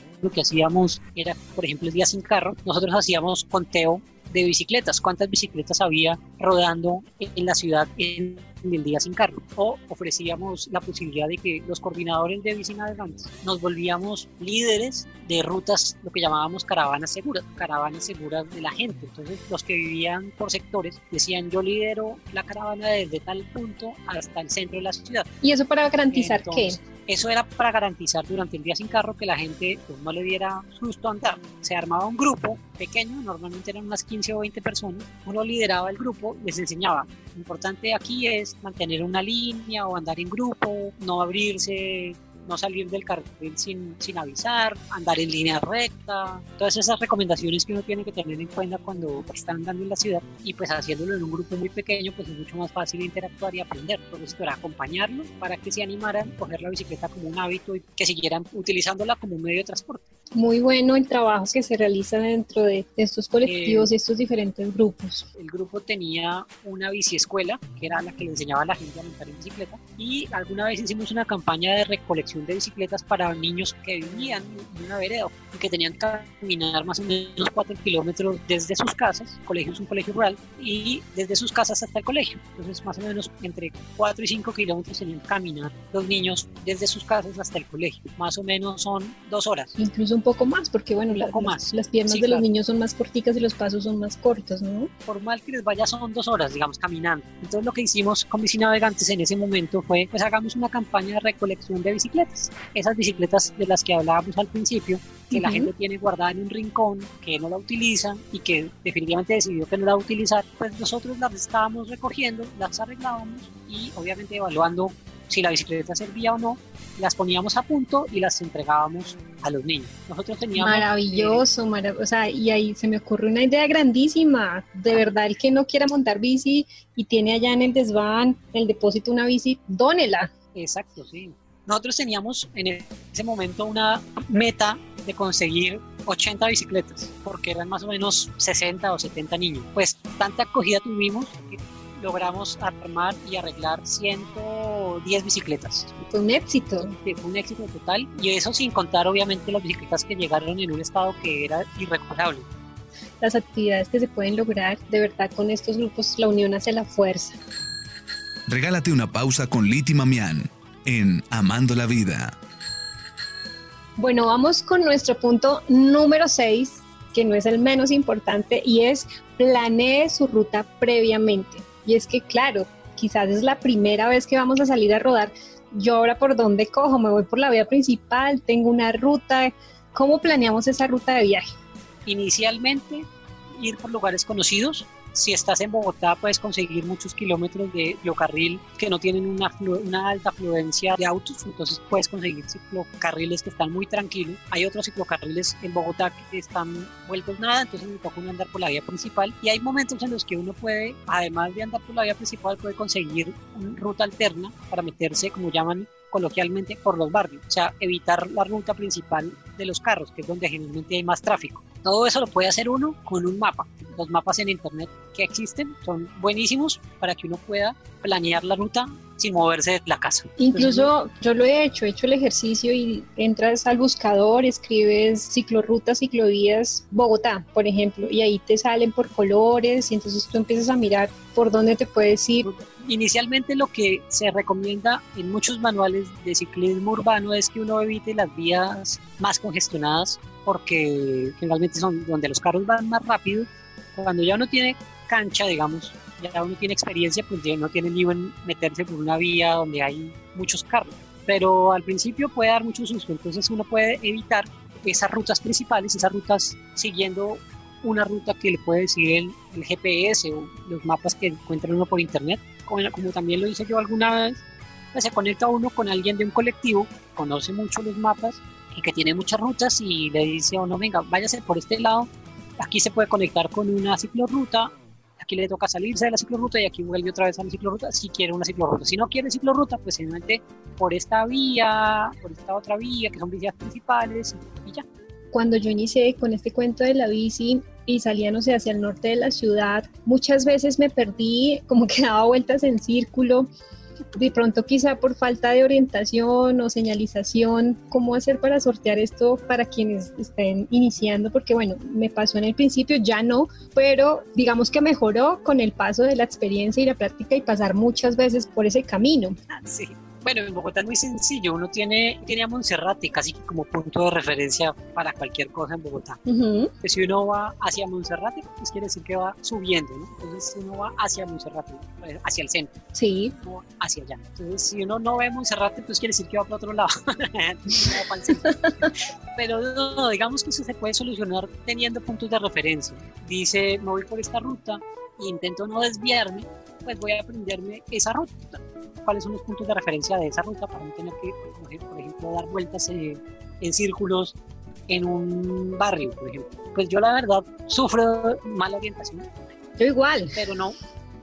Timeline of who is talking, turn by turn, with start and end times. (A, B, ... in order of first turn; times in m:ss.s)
0:00.2-0:25.3 A
0:25.4-0:26.8 B
0:26.1-1:00.0 A
1:00.3-1:05.3 B
1:03.4-1:03.9 A
1:05.4-1:29.7 A
1:29.8-1:34.9 B
1:31.1-1:32.4 A
1:35.0-2:01.4 A
1:45.3-1:45.7 B
2:00.5-2:10.3 B
2:10.5-2:26.0 A
2:26.1-2:27.0 B
2:27.0-2:32.4 A
2:33.2-2:37.4 B
2:38.5-2:42.3 C
2:44.0-3:01.5 B
3:02.0-3:40.9 A
3:40.4-3:52.5 B
3:52.4-4:24.4 A
4:24.9-4:44.8 A
4:45.3-4:53.5 B
4:54.1-5:09.4 B
5:09.5-5:16.2 A
5:16.3-5:16.7 B
5:16.8-5:22.7 A
5:22.9-5:23.3 B
5:23.4-5:44.4 A
5:44.9-5:49.2 A
5:49.8-5:50.4 B
5:50.3-5:50.8 A